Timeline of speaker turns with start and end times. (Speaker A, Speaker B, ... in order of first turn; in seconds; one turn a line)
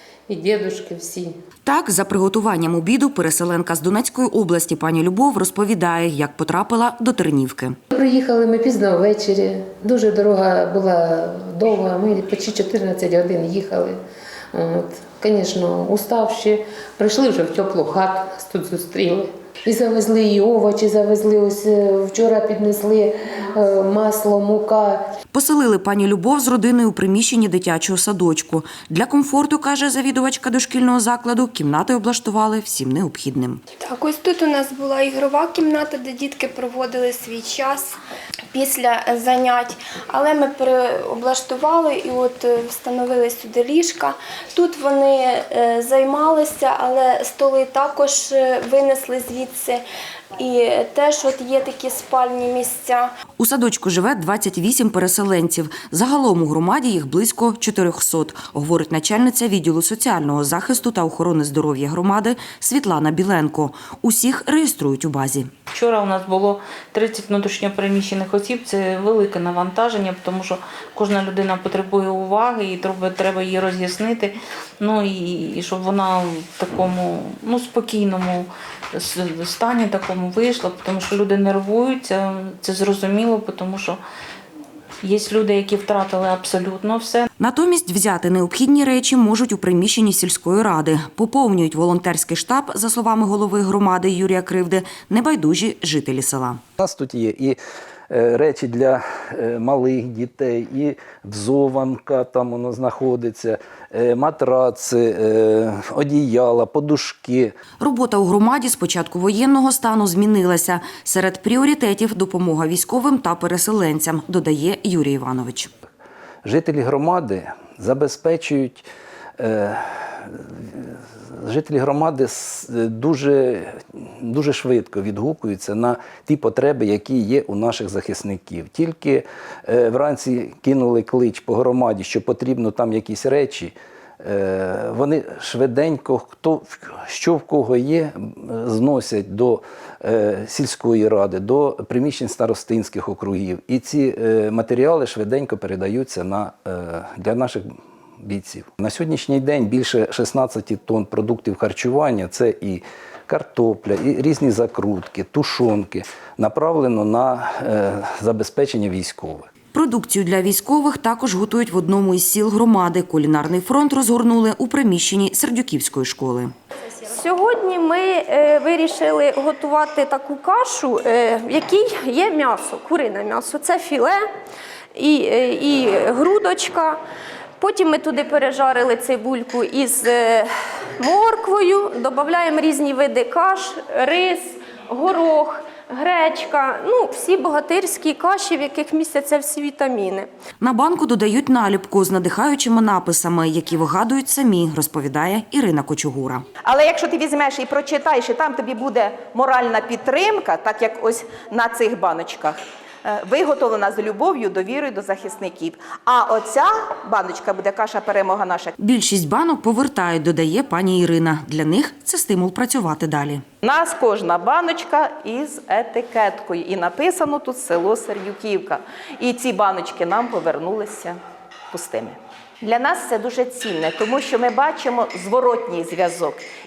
Speaker A: 0.3-1.3
Speaker B: 1.7-7.8
Speaker A: 7.9-14.0
Speaker A: 14.5-25.0
Speaker B: 25.3-33.6
Speaker C: 33.8-38.0
Speaker C: 38.5-49.8
Speaker C: 50.4-53.1
Speaker B: 53.4-65.5
Speaker D: 65.7-84.0
Speaker D: 85.0-87.3
Speaker B: 87.4-96.6
Speaker E: 96.8-97.6
Speaker E: 98.1-107.5
Speaker B: 107.8-115.7
Speaker E: 116.5-118.9
Speaker E: 119.4-120.9
Speaker E: 121.4-147.6
Speaker E: 148.2-159.5
Speaker B: 159.7-166.5
Speaker F: 167.0-174.2
Speaker F: 174.9-177.0
Speaker F: 177.6-190.3
Speaker B: 190.6-196.4
Speaker G: 196.6-208.8
Speaker B: 208.8-213.4
Speaker G: 213.6-221.2
Speaker G: 221.7-226.4